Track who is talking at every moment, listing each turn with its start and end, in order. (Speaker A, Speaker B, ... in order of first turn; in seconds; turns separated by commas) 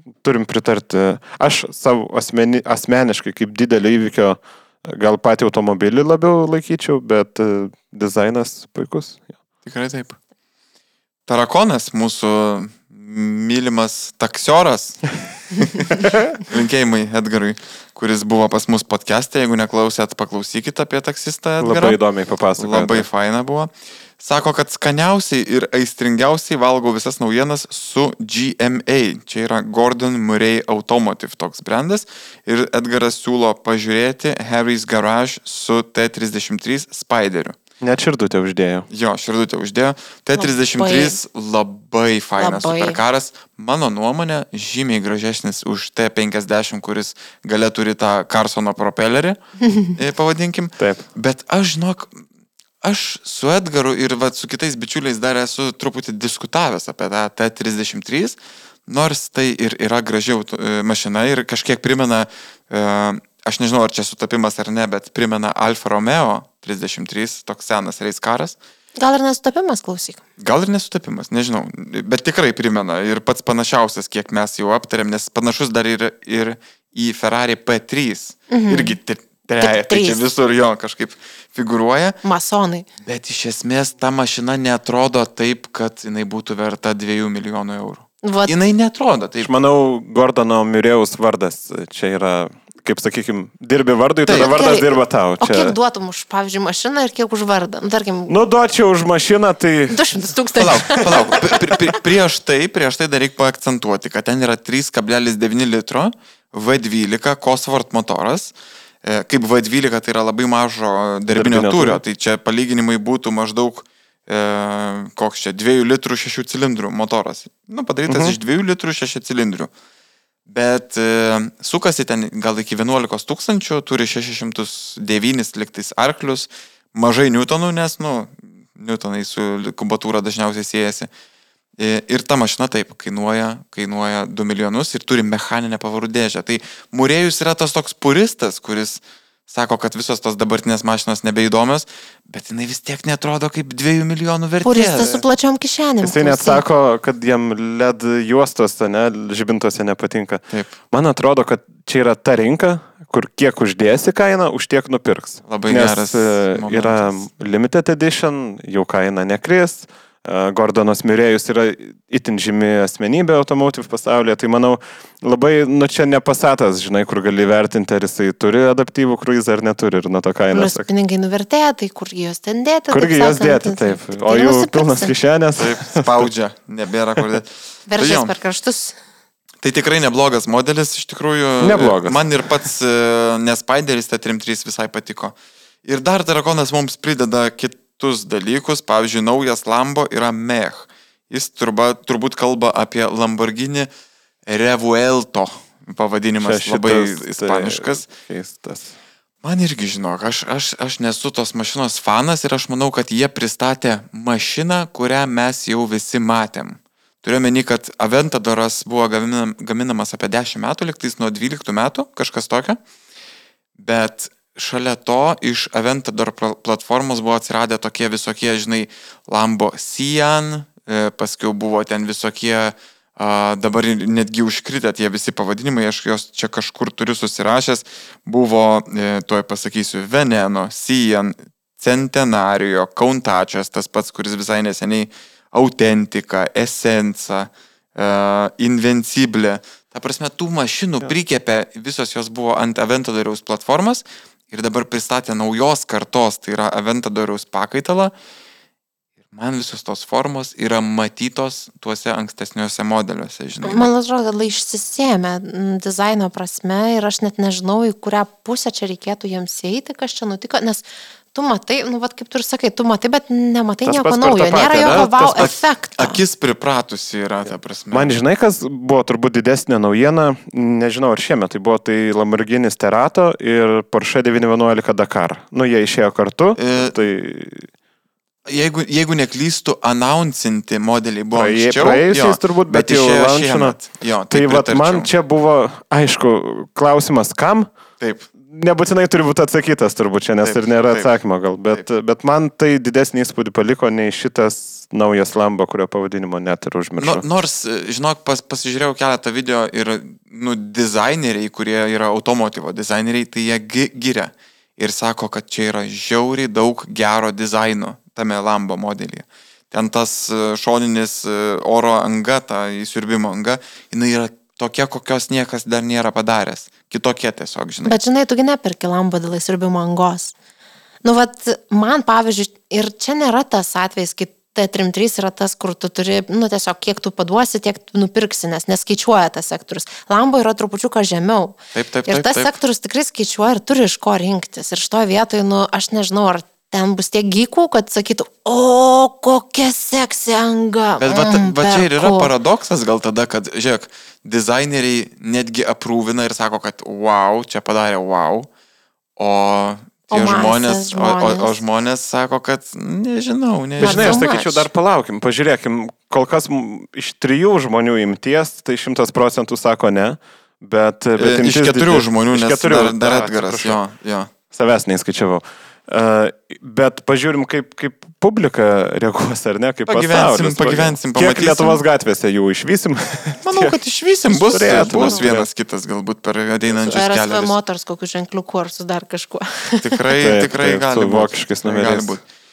Speaker A: 0.2-9.3, Speaker B: 9.6-10.2, Speaker B: 11.3-22.0, Speaker A: 21.6-23.1, Speaker B: 22.6-37.5, Speaker A: 37.8-38.9, Speaker B: 38.9-49.4, Speaker C: 40.4-41.2, Speaker C: 42.4-43.0, Speaker C: 49.6-49.9, Speaker B: 49.9-52.2, Speaker A: 50.8-51.0, Speaker B: 52.8-68.5, Speaker C: 69.0-70.2, Speaker B: 70.4-82.2, Speaker C: 78.5-79.0, Speaker C: 79.6-80.2, Speaker C: 82.2-82.8, Speaker B: 83.0-89.5, Speaker C: 88.2-88.5, Speaker A: 89.4-95.8, Speaker B: 94.2-94.6, Speaker C: 94.3-98.3, Speaker A: 98.3-100.0, Speaker C: 99.9-101.8, Speaker B: 100.5-108.5, Speaker B: 109.0-119.7, Speaker A: 111.3-112.0, Speaker A: 118.1-118.4, Speaker B: 120.5-131.1, Speaker B: 131.8-145.2, Speaker C: 144.6-146.6, Speaker A: 146.0-170.9, Speaker B: 155.5-157.2, Speaker C: 170.5-175.1, Speaker A: 172.9-176.3, Speaker B: 175.6-178.3, Speaker C: 177.9-179.0, Speaker B: 179.6-193.9, Speaker A: 181.6-182.2, Speaker B: 194.4-198.0, Speaker A: 196.4-198.9, Speaker B: 199.4-212.8, Speaker B: 213.8-248.1, Speaker B: 249.3-253.9, Speaker C: 253.6-266.2, Speaker A: 263.8-265.5, Speaker B: 264.9-268.1, Speaker A: 267.9-277.7, Speaker B: 276.6-276.9, Speaker B: 278.4-285.1, Speaker A: 281.3-283.8, Speaker A: 284.3-287.7, Speaker B: 288.0-288.3, Speaker A: 288.4-297.2, Speaker B: 290.4-291.1, Speaker B: 297.0-318.0, Speaker C: 317.8-320.3, Speaker C: 321.0-331.6, Speaker B: 331.7-332.5, Speaker C: 332.1-342.3, Speaker B: 341.0-348.5, Speaker B: 349.2-354.5, Speaker C: 350.1-351.6, Speaker A: 353.8-363.8, Speaker C: 353.8-354.6, Speaker B: 361.2-364.3, Speaker A: 364.5-373.7, Speaker B: 369.9-371.8, Speaker B: 373.4-377.5, Speaker A: 374.3-375.4, Speaker C: 374.9-375.2, Speaker C: 376.9-380.0, Speaker B: 379.8-382.2, Speaker A: 380.2-382.2